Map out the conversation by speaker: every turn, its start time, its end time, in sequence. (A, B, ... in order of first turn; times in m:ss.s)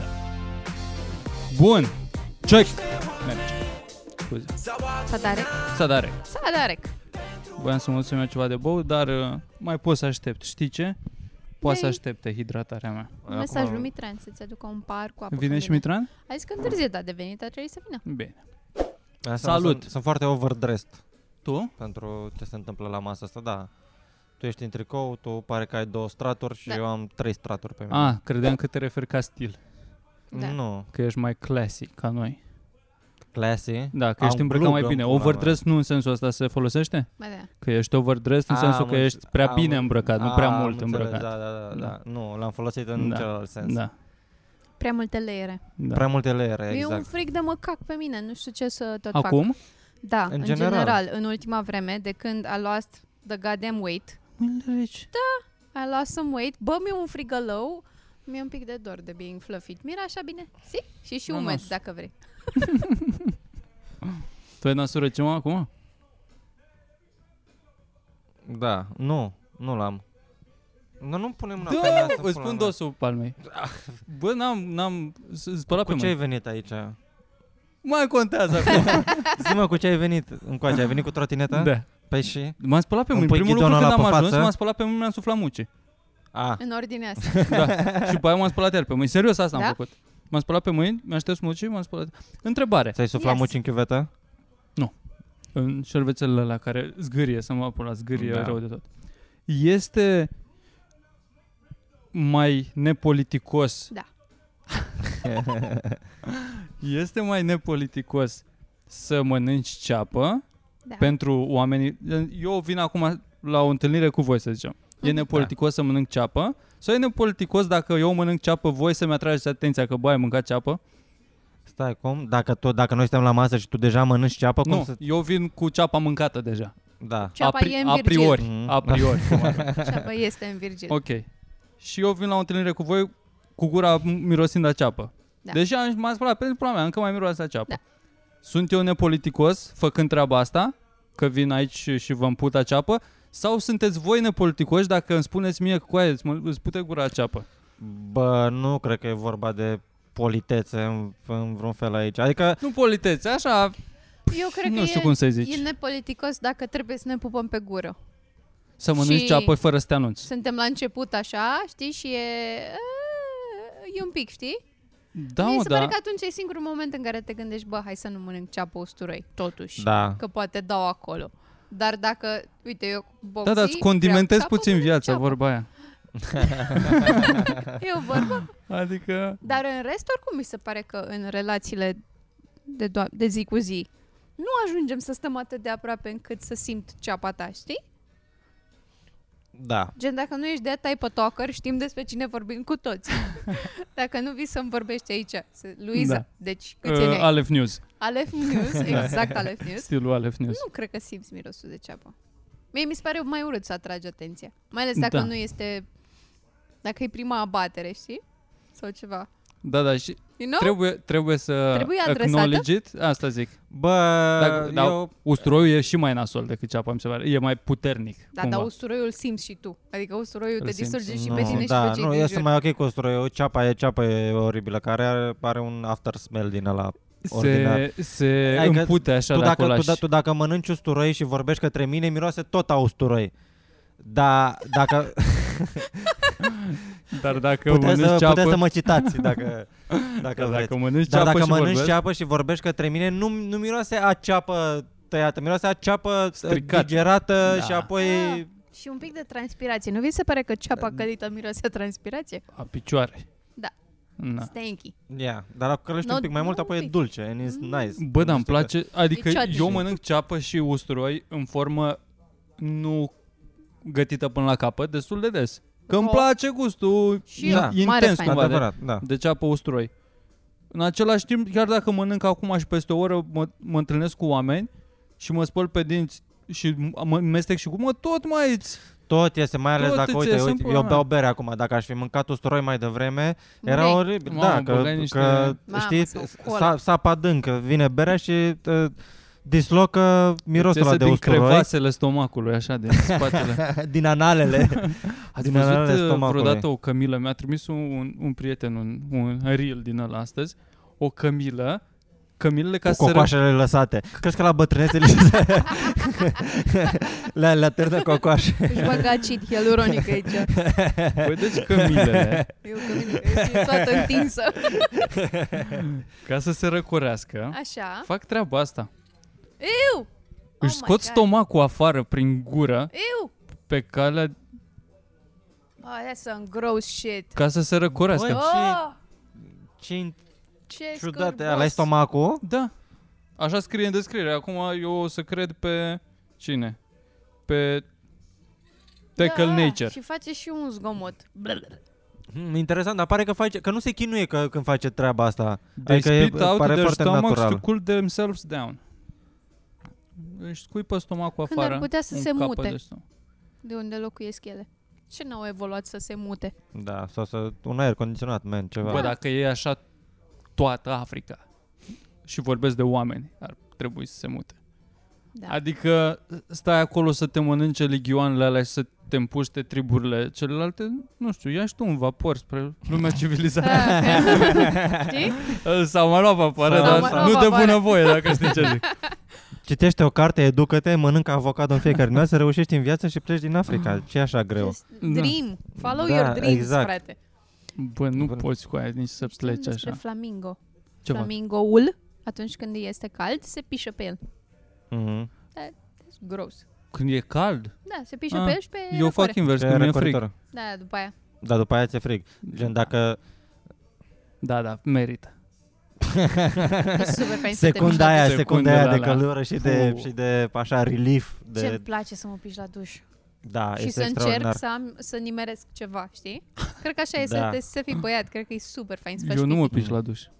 0:01.5-0:01.9 A
0:02.4-0:03.6 A
0:04.2-0:04.5 A
0:04.9-0:05.6 B
0:05.6-0:06.2 A
0:06.2-0:06.9 B
0:07.6-0:11.0 A
0:11.6-0:13.1 A
0:11.6-0:12.0 B
0:13.2-0:13.9 C
0:13.3-0:18.0 B
0:15.3-0:16.1 A
0:18.0-0:18.4 A
0:19.2-0:21.0 C
0:19.4-0:19.8 A
0:21.4-0:21.7 A
0:21.8-0:23.7 C
0:24.4-0:28.1 C
0:27.9-0:29.6 A
0:30.3-0:30.6 B
0:30.3-0:30.9 C
0:30.9-0:32.4 A
0:33.3-0:35.6 C
0:33.9-0:41.9 A
0:37.2-0:37.5 B
0:38.5-0:43.8 C
0:43.0-0:43.9 A
0:44.8-0:45.6 B
0:45.8-0:46.0 A
0:45.9-0:47.1 C
0:46.7-0:49.5 B
0:49.1-0:49.6 A
0:50.0-0:54.2 B
0:50.3-0:51.0 C
0:54.4-0:55.1 A
0:55.1-1:02.1 B
1:01.3-1:01.7 A
1:02.6-1:03.3 A
1:04.1-1:05.7 A
1:08.4-1:10.0 C
1:11.0-1:12.7 C
1:11.6-1:13.4 A
1:13.4-1:14.0 C
1:14.0-1:16.1 A
1:15.7-1:17.0 C
1:17.8-1:19.4 A
1:18.6-1:22.6 C
1:21.5-1:21.9 A
1:22.6-1:25.7 A
1:23.1-1:24.5 C
1:26.3-1:26.6 C
1:26.6-1:27.4 B
1:27.2-1:28.2 C
1:27.5-1:33.0 A
1:32.9-1:34.1 C
1:33.1-1:33.5 B
1:35.5-1:38.8 A
1:38.1-1:38.6 C
1:39.5-1:40.3 A
1:42.1-1:43.9 A
1:45.2-1:46.0 C
1:46.2-1:50.4 A
1:50.9-1:51.1 B
1:51.0-2:00.8 A
2:01.7-2:05.0 C
2:04.6-2:06.7 A
2:07.0-2:07.4 C
2:07.4-2:08.4 B
2:07.4-2:09.7 A
2:08.4-2:10.0 C
2:09.8-2:11.0 B
2:10.9-2:11.3 A
2:11.8-2:17.8 A
2:18.4-2:27.4 A
2:27.8-2:32.6 C
2:32.6-2:33.8 A
2:34.3-2:38.0 B
2:34.3-2:35.6 A
2:38.8-2:40.3 A
2:39.0-2:39.5 B
2:40.2-2:44.6 B
2:45.1-2:45.9 A
2:45.4-2:55.3 B
2:49.8-2:50.2 C
2:53.4-2:55.7 A
2:56.2-2:57.6 C
2:56.4-2:58.5 B
2:56.8-2:57.5 A
2:58.2-2:59.4 A
2:59.4-3:02.0 B
3:02.6-3:07.8 B
3:09.5-3:09.9 C
3:10.0-3:17.3 B
3:15.9-3:16.2 A
3:16.8-3:17.8 A
3:18.0-3:19.9 B
3:18.8-3:19.1 A
3:18.9-3:19.3 C
3:19.8-3:20.6 A
3:20.4-3:22.1 B
3:22.7-3:25.8 B
3:25.0-3:25.3 A
3:26.8-3:28.2 B
3:28.7-3:29.3 B
3:29.6-3:33.6 A
3:30.4-3:30.8 B
3:31.7-3:32.7 B
3:33.7-3:35.1 C
3:34.4-3:38.7 A
3:38.3-3:42.5 B
3:40.6-3:41.7 A
3:41.1-3:47.9 C
3:47.2-3:50.0 A
3:48.4-3:53.3 C
3:54.0-3:56.4 C
3:56.4-3:59.4 A
3:57.6-4:08.5 C
3:59.9-4:02.0 A
4:06.4-4:07.9 A
4:08.0-4:12.4 B
4:10.8-4:11.0 C
4:12.5-4:13.2 A
4:14.2-4:14.5 A
4:14.4-4:14.9 B
4:15.1-4:18.7 C
4:16.0-4:16.9 B
4:17.4-4:17.9 B
4:18.0-4:22.0 A
4:19.1-4:19.9 B
4:22.6-4:23.1 A
4:23.8-4:29.9 A
4:25.9-4:26.2 B
4:27.3-4:28.5 B
4:27.4-4:29.0 C
4:30.7-4:34.7 A
4:35.2-4:38.8 A
4:39.1-4:51.7 C
4:39.8-4:41.0 A
4:43.6-4:44.0 B
4:44.3-4:45.6 A
4:45.7-4:46.7 B
4:50.6-4:53.7 A
4:52.9-4:56.6 C
4:54.6-5:01.8 A
5:02.4-5:03.3 A
5:02.8-5:09.2 C
5:08.6-5:10.5 B
5:10.5-5:14.3 C
5:11.2-5:12.5 A
5:12.6-5:15.1 B
5:14.8-5:15.8 C
5:15.7-5:18.9 A
5:17.5-5:18.1 B
5:19.6-5:20.1 B
5:20.6-5:21.3 B
5:20.6-5:22.9 A
5:22.9-5:23.3 B
5:23.7-5:24.3 A
5:25.8-5:27.4 B
5:27.3-5:28.4 A
5:28.1-5:28.8 C
5:28.3-5:29.0 B
5:29.4-5:30.2 C
5:30.7-5:31.9 B
5:31.0-5:32.4 C
5:32.4-5:32.7 A
5:33.4-5:36.8 A
5:37.4-5:37.8 A
5:39.2-5:39.9 A
5:39.2-5:41.8 B
5:42.3-5:47.6 C
5:45.8-5:48.8 A
5:50.2-5:53.0 A
5:51.5-5:52.8 B
5:53.6-5:56.5 B
5:56.7-5:59.1 C
5:58.8-5:59.8 A
5:58.9-5:59.2 B
6:00.6-6:01.4 A
6:02.2-6:04.6 A
6:05.5-6:14.7 A
6:13.6-6:15.4 B
6:14.1-6:15.3 C
6:15.4-6:18.9 A
6:16.6-6:17.6 C
6:16.7-6:19.1 B
6:19.6-6:24.8 C
6:24.6-6:27.2 B
6:25.0-6:25.4 A
6:25.8-6:26.9 C
6:27.8-6:30.0 A
6:28.1-6:28.4 C
6:29.2-6:34.2 B
6:31.0-6:31.3 A
6:34.9-6:35.3 C
6:35.5-6:36.6 B
6:36.9-6:37.8 A
6:37.8-6:39.4 B
6:38.3-6:40.2 A
6:39.5-6:40.3 C
6:40.5-6:41.1 B
6:41.4-6:43.2 C
6:44.4-6:45.3 A
6:46.0-6:51.8 C
6:46.9-6:48.2 B
6:47.8-6:50.1 A
6:51.5-6:53.0 B
6:53.4-6:54.6 C
6:53.8-6:59.8 B
6:57.2-6:57.6 C
6:59.2-7:00.3 A